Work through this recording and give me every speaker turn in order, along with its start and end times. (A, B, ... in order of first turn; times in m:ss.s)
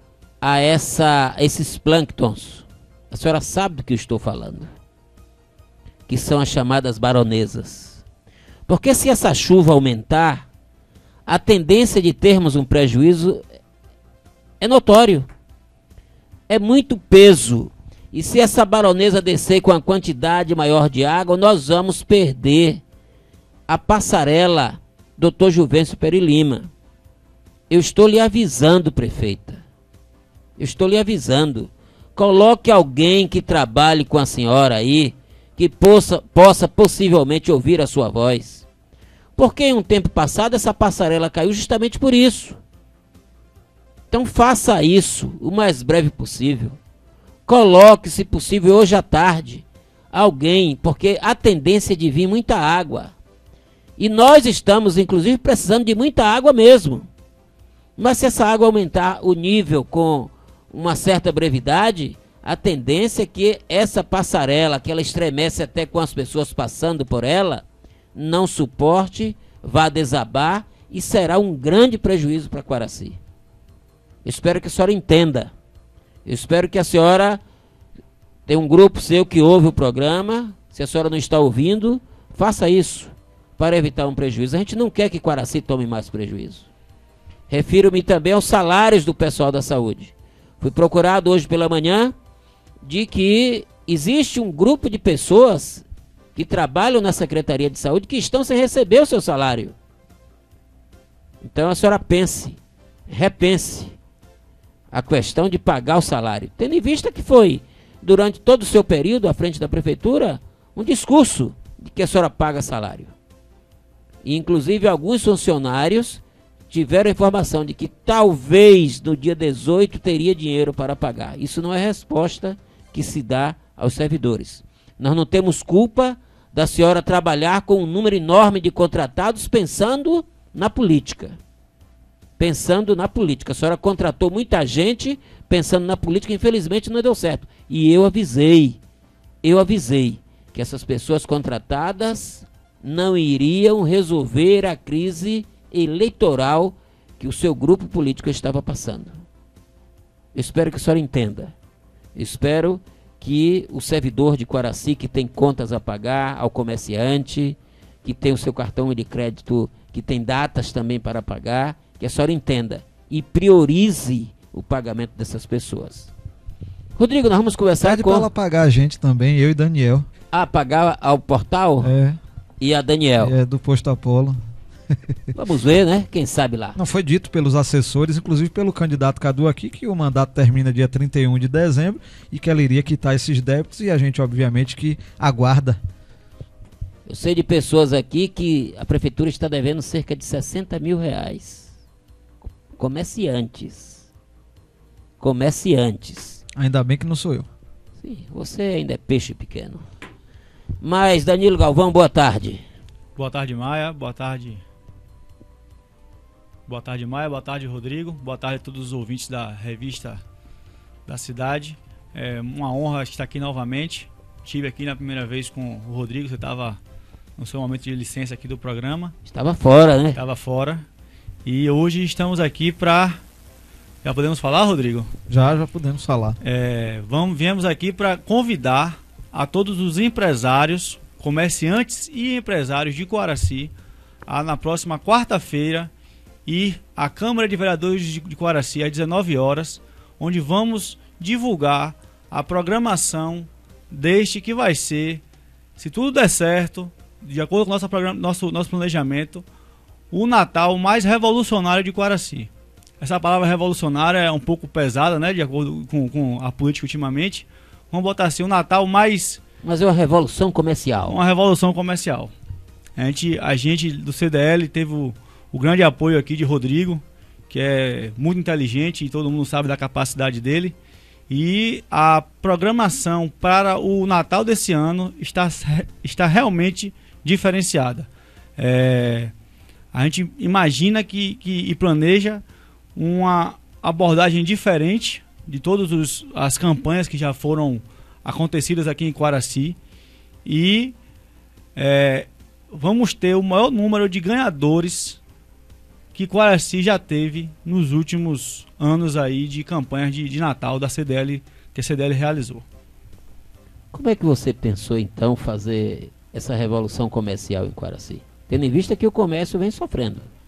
0:00.4-0:04.7 A
0:06.1-0:08.0 A
0:08.7-0:10.5 A
0:11.3-0:13.4 A
0:14.6-0:15.3 A
0:16.5-0:22.8 A
0:23.7-0:26.7 A
0:27.7-0:29.6 A
0:30.6-0:38.7 A
0:39.4-0:42.6 A
0:44.1-0:46.8 A
0:47.4-0:53.1 A
0:54.0-0:57.1 A
0:58.0-1:07.6 A
1:08.1-1:13.2 A
1:14.2-1:15.5 A
1:16.3-1:17.4 A
1:18.5-1:26.7 A
1:27.5-1:32.1 A
1:32.8-1:39.7 A
1:41.4-1:44.0 A
1:44.9-1:53.1 A
1:54.2-2:11.4 A
2:12.4-2:18.8 A
2:19.4-2:29.2 A
2:30.4-2:31.5 A
2:32.1-2:46.1 A
2:47.0-2:48.3 A
2:47.8-2:50.1 B
2:50.3-2:51.9 A
2:51.8-2:52.2 B
2:52.6-2:53.3 A
2:53.2-2:54.4 B
2:55.4-2:56.8 A
2:56.8-3:05.8 B
3:07.0-3:11.7 A
3:12.7-3:14.0 A
3:15.2-3:16.4 A
3:16.6-3:17.5 B
3:18.0-3:19.8 A
3:20.8-3:22.6 A
3:23.2-3:24.6 C
3:26.7-3:30.2 C
3:31.0-3:36.8 C
3:37.4-3:39.2 C
3:39.3-3:40.2 A
3:40.1-3:40.8 C
3:41.4-3:43.2 C
3:44.0-3:45.1 C
3:45.3-3:46.4 B
3:46.4-3:53.7 C
3:54.3-3:55.9 C
3:56.4-4:05.2 C
4:05.8-4:09.4 C
4:10.1-4:19.4 C
4:19.6-4:21.2 A
4:21.0-4:22.3 C
4:23.0-4:30.7 C
4:31.3-4:39.3 C
4:39.9-4:42.4 C
4:43.0-4:49.8 C
4:50.4-4:51.0 C
4:51.8-4:55.2 C
4:56.1-5:02.6 C
5:03.9-5:10.3 A